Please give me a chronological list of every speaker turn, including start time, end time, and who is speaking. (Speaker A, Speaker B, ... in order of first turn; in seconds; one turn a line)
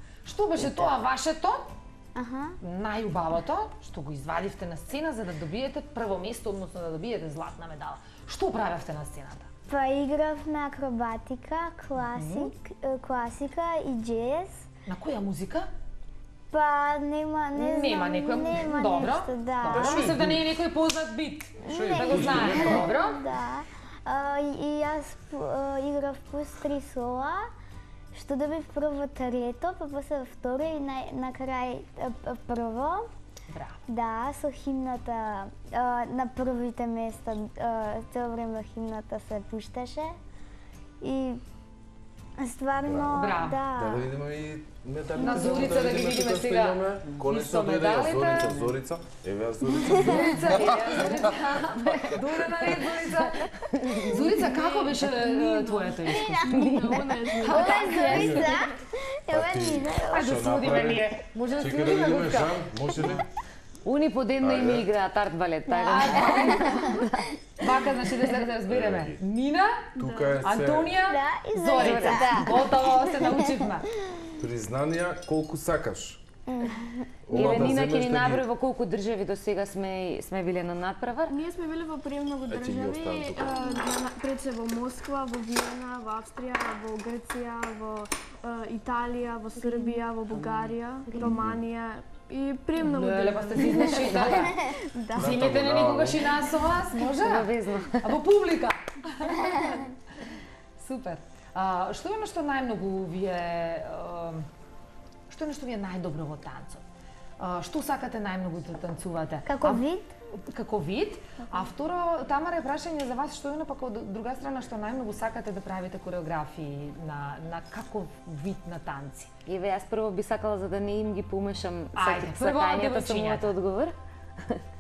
Speaker A: 0.2-1.7
Speaker B: 2.1-2.6
Speaker A: 2.6-9.5
Speaker B: 9.7-14.6
Speaker A: 12.1-12.5
Speaker A: 14.9-15.7
Speaker B: 16.5-20.1
Speaker A: 17.5-23.2
Speaker C: 19.7-20.4
Speaker C: 21.6-22.9
Speaker B: 21.6-27.4
Speaker B: 28.1-33.0
Speaker A: 33.5-33.8
Speaker B: 33.9-40.1
Speaker B: 41.0-41.4
Speaker B: 42.4-44.1
Speaker C: 42.8-51.3
Speaker A: 43.1-43.6
Speaker B: 45.2-45.8
Speaker A: 45.2-48.5
Speaker A: 49.9-56.5
Speaker C: 51.9-52.9
Speaker D: 53.1-54.3
Speaker E: 54.4-58.7
Speaker B: 56.1-56.4
Speaker D: 56.5-57.1
Speaker A: 57.3-58.5
Speaker B: 57.5-60.6
Speaker C: 58.1-58.5
Speaker C: 59.3-63.3
Speaker A: 60.1-63.1
Speaker D: 63.8-67.3
Speaker C: 64.4-64.8
Speaker A: 65.8-66.8
Speaker B: 66.3-66.8
Speaker A: 67.6-73.9
Speaker C: 68.7-69.2
Speaker C: 70.0-71.0
Speaker B: 70.0-70.4
Speaker B: 71.0-74.2
Speaker D: 71.8-72.3
Speaker C: 74.4-76.2
Speaker B: 76.5-77.2
Speaker C: 77.2-78.4
Speaker D: 77.3-81.3
Speaker E: 81.3-95.4
Speaker C: 82.5-83.6
Speaker A: 92.8-94.6
Speaker A: 95.1-99.9
Speaker C: 95.1-96.2
Speaker D: 97.1-98.2
Speaker A: 100.8-104.5
Speaker A: 105.3-106.8
Speaker A: 107.4-109.8
Speaker B: 109.5-110.1
Speaker A: 110.4-119.3
Speaker D: 119.4-124.6
Speaker A: 121.9-123.5